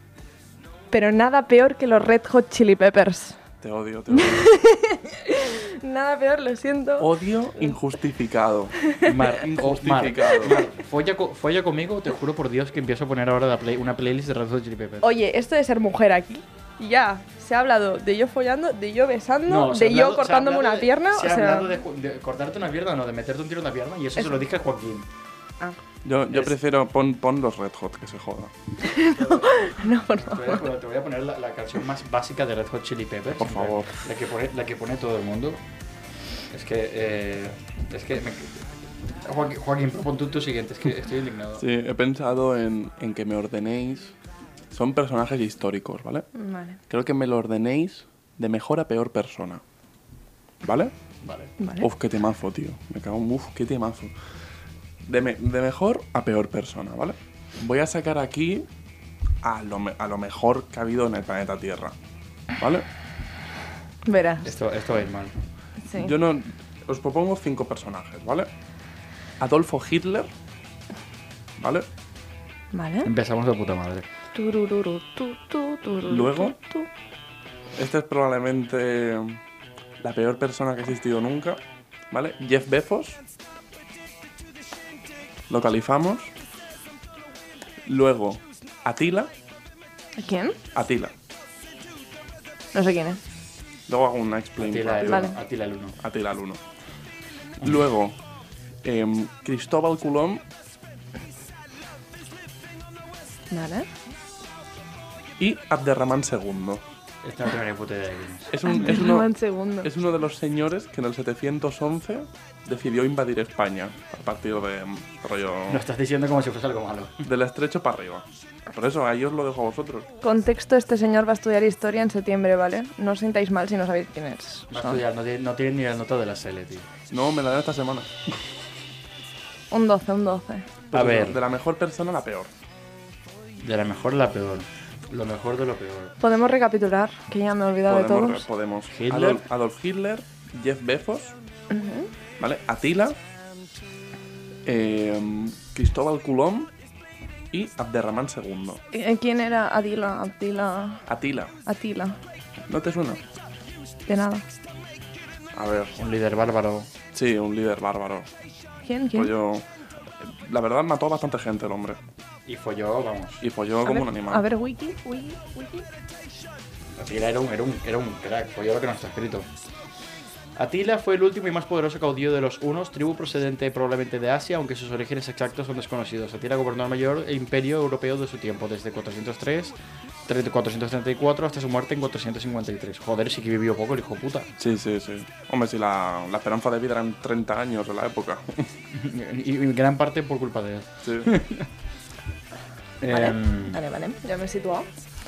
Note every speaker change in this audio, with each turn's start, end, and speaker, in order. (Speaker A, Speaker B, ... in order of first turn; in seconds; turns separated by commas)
Speaker A: 0.9-3.4, Speaker B: 3.6-4.5, Speaker A: 4.1-7.1, Speaker B: 7.0-10.6, Speaker C: 9.0-15.1, Speaker A: 15.0-21.7, Speaker C: 19.5-25.1, Speaker B: 26.0-28.5, Speaker A: 28.8-30.6, Speaker C: 29.1-35.6, Speaker B: 33.4-34.0, Speaker C: 36.5-38.7, Speaker C: 39.2-41.6, Speaker B: 41.6-44.1, Speaker B: 44.7-46.3, Speaker A: 46.4-46.8, Speaker B: 46.9-49.6, Speaker B: 50.6-50.9, Speaker C: 51.2-51.5, Speaker A: 51.6-51.9, Speaker B: 51.8-54.1, Speaker B: 55.0-58.7, Speaker B: 59.4-62.0, Speaker B: 62.6-62.9, Speaker A: 64.1-64.5, Speaker C: 64.5-65.3, Speaker A: 65.9-66.1, Speaker B: 65.9-68.5, Speaker B: 69.4-70.3, Speaker B: 71.6-71.9, Speaker A: 72.7-73.1, Speaker C: 73.0-74.0, Speaker A: 74.3-76.9, Speaker B: 76.1-76.6, Speaker B: 77.8-79.4, Speaker B: 80.0-83.2, Speaker B: 85.5-86.3, Speaker B: 87.8-89.3, Speaker A: 90.2-90.6, Speaker B: 90.8-91.1, Speaker A: 92.7-93.2, Speaker B: 93.9-95.3, Speaker C: 94.6-96.0, Speaker A: 95.0-95.4, Speaker B: 96.0-96.6, Speaker B: 97.6-98.2, Speaker B: 98.8-100.4, Speaker A: 103.5-103.9, Speaker B: 105.4-106.8, Speaker C: 107.2-108.6, Speaker B: 108.5-109.3, Speaker A: 108.7-109.9, Speaker B: 109.8-115.8, Speaker C: 115.7-117.2, Speaker B: 117.2-120.1, Speaker A: 120.2-125.0, Speaker C: 124.7-126.9, Speaker B: 127.1-128.4, Speaker A: 129.7-130.7, Speaker B: 130.9-132.5, Speaker C: 130.9-131.4, Speaker C: 133.6-136.2, Speaker A: 136.2-138.5, Speaker B: 137.9-141.4, Speaker C: 138.9-139.4, Speaker A: 141.7-142.1, Speaker B: 142.4-143.2, Speaker B: 144.7-146.7, Speaker B: 147.5-148.8, Speaker A: 148.9-151.1, Speaker B: 151.1-151.5, Speaker A: 151.7-152.2, Speaker B: 152.7-153.2, Speaker A: 154.1-154.4, Speaker B: 155.5-156.0, Speaker C: 156.0-156.9, Speaker B: 157.1-158.3, Speaker A: 158.8-159.3, Speaker B: 159.1-159.7, Speaker B: 160.2-162.0, Speaker C: 162.5-163.4, Speaker B: 163.4-164.4, Speaker A: 163.8-165.8, Speaker C: 167.0-169.5, Speaker C: 170.6-179.8, Speaker C: 180.3-184.5, Speaker B: 184.6-188.7, Speaker C: 188.9-191.7, Speaker B: 191.0-191.3, Speaker C: 193.0-193.8, Speaker A: 193.1-194.9